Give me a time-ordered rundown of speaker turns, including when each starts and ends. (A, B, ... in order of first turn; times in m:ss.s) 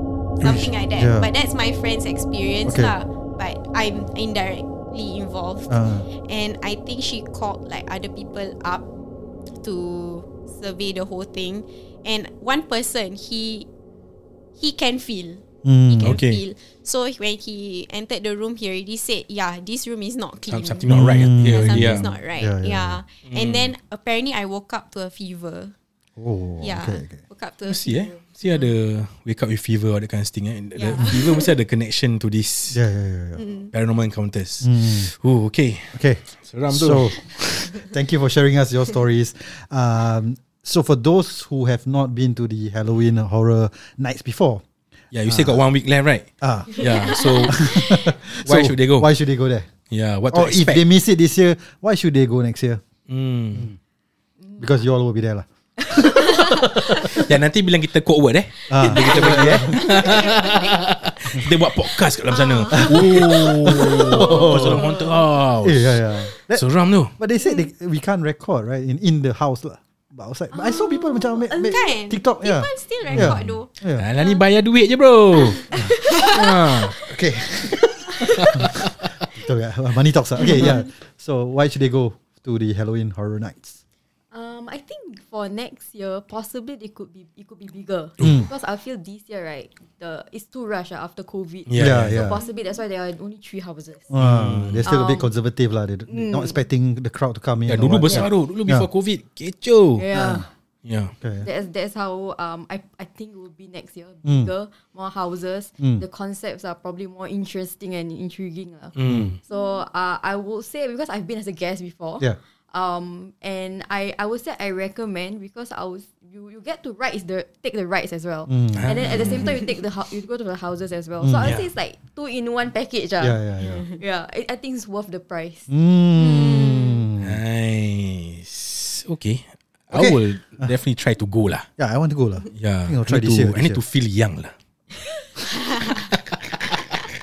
0:00.4-0:00.7 A
0:00.4-0:08.9 B
0:01.0-0:01.3 C
0:02.6-0:02.9 C
0:05.7-0:06.1 C
0:09.6-0:13.7 B
0:14.6-0:25.8 B
0:15.6-0:16.2 C
0:16.0-0:16.4 A
0:20.5-0:22.1 A
0:20.9-0:23.0 C
0:23.3-0:23.7 A
0:26.2-0:27.2 C
0:26.6-0:28.7 B
0:27.7-0:32.8 A
0:30.8-0:31.5 B
0:32.7-0:33.4 C
0:33.4-0:33.7 B
0:33.7-0:37.4 A
0:34.6-0:35.1 C
0:35.9-0:44.6 C
0:45.1-0:47.8 A
0:45.3-0:45.6 C
0:46.4-0:49.7 C
0:46.8-0:48.0 B
0:48.4-0:49.1 A
0:49.9-0:50.8 A
0:50.3-0:52.8 C
0:53.1-0:53.7 A
0:54.6-0:57.3 C
0:57.1-1:07.1 A
0:58.7-1:00.0 C
0:59.6-1:00.7 B
1:02.3-1:03.2 B
1:02.7-1:05.0 C
1:04.2-1:04.6 B
1:05.6-1:14.0 C
1:10.5-1:14.4 B
1:11.5-1:11.8 D
1:13.0-1:17.0 A
1:15.4-1:17.1 B
1:16.9-1:23.8 C
1:18.1-1:18.5 B
1:18.4-1:18.8 A
1:20.4-1:20.8 B
1:24.3-1:34.1 D
1:28.2-1:28.5 C
1:31.7-1:32.4 A
1:31.8-1:32.4 C
1:34.1-1:38.9 C
1:34.2-1:34.9 A
1:34.8-1:35.3 D
1:36.1-1:36.6 D
1:37.7-1:40.1 A
1:40.0-1:40.5 D
1:40.1-1:40.5 C
1:40.8-1:41.1 A
1:41.2-1:41.5 C
1:41.4-2:03.4 D
1:44.2-1:44.5 C
1:45.8-1:46.0 C
1:49.0-1:49.4 A
1:49.1-1:49.4 C
1:58.5-1:59.6 C
1:58.7-1:59.6 A
2:01.2-2:01.6 C
2:01.4-2:01.7 A
2:03.2-2:03.9 C
2:03.6-2:04.0 B
2:04.0-2:05.7 D
2:05.7-2:07.4 C
2:06.2-2:07.0 B
2:07.2-2:11.7 A
2:09.9-2:10.7 C
2:11.8-2:13.8 C
2:12.6-2:14.5 A